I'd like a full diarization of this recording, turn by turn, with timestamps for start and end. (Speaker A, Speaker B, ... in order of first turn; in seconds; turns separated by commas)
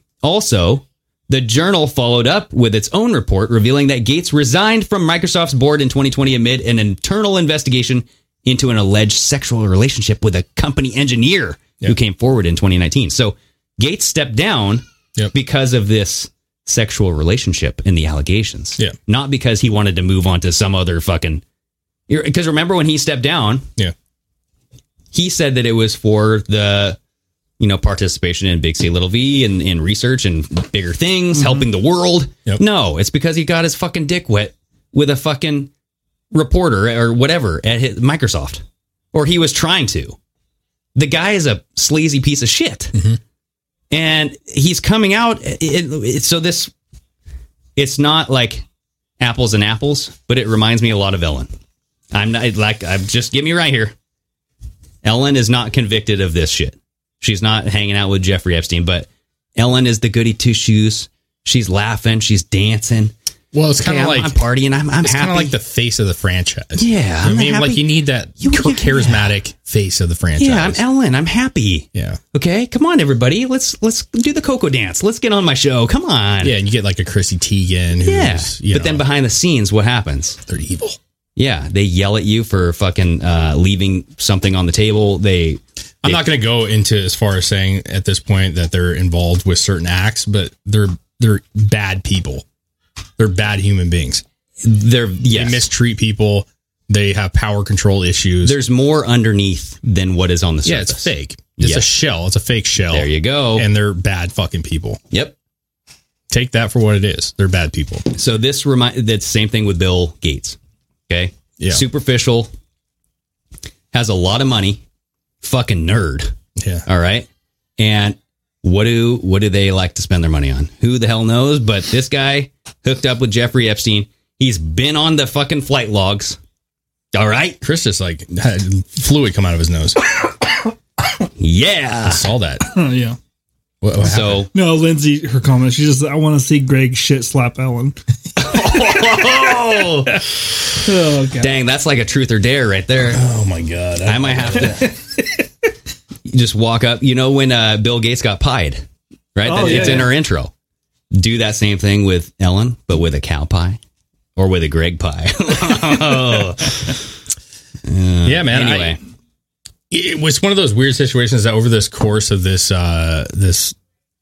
Speaker A: 0.2-21.4, Speaker A: 22.1-23.7, Speaker A: 25.1-27.0, Speaker A: 27.6-35.7, Speaker B: 31.4-31.7, Speaker A: 36.3-40.2, Speaker A: 41.0-43.0, Speaker C: 42.9-43.2, Speaker A: 43.9-46.7, Speaker A: 47.8-48.6, Speaker A: 49.2-51.5, Speaker A: 52.1-54.0, Speaker A: 55.0-63.1, Speaker C: 63.5-64.4, Speaker A: 63.8-65.5, Speaker C: 65.0-70.8, Speaker A: 66.8-67.9, Speaker A: 68.4-69.3, Speaker A: 70.4-76.6, Speaker C: 71.9-72.2, Speaker C: 76.4-79.1, Speaker A: 78.0-80.4, Speaker C: 80.5-81.0, Speaker A: 81.4-86.2, Speaker C: 86.0-92.4, Speaker C: 93.2-94.2, Speaker A: 94.6-95.7, Speaker C: 95.3-98.6, Speaker A: 98.4-101.9, Speaker C: 100.7-105.0, Speaker A: 102.9-103.7, Speaker C: 106.3-108.1, Speaker A: 108.1-110.6, Speaker A: 111.1-112.5, Speaker C: 111.6-111.8, Speaker A: 113.9-114.8, Speaker A: 115.4-116.3, Speaker C: 116.6-116.8, Speaker A: 116.9-126.4, Speaker A: 127.1-127.6, Speaker C: 127.6-130.0, Speaker A: 131.4-132.2, Speaker C: 132.1-132.6, Speaker B: 132.7-133.2, Speaker C: 133.8-134.5, Speaker A: 134.0-134.5, Speaker B: 134.5-138.0, Speaker A: 138.4-140.3, Speaker B: 140.8-141.5, Speaker A: 141.4-143.2, Speaker C: 143.1-144.9, Speaker A: 144.1-144.9, Speaker A: 146.3-150.5, Speaker B: 149.4-150.1, Speaker C: 149.6-150.1, Speaker A: 151.1-153.8, Speaker A: 154.4-157.0, Speaker A: 157.9-159.0, Speaker C: 158.2-159.0, Speaker C: 159.9-163.8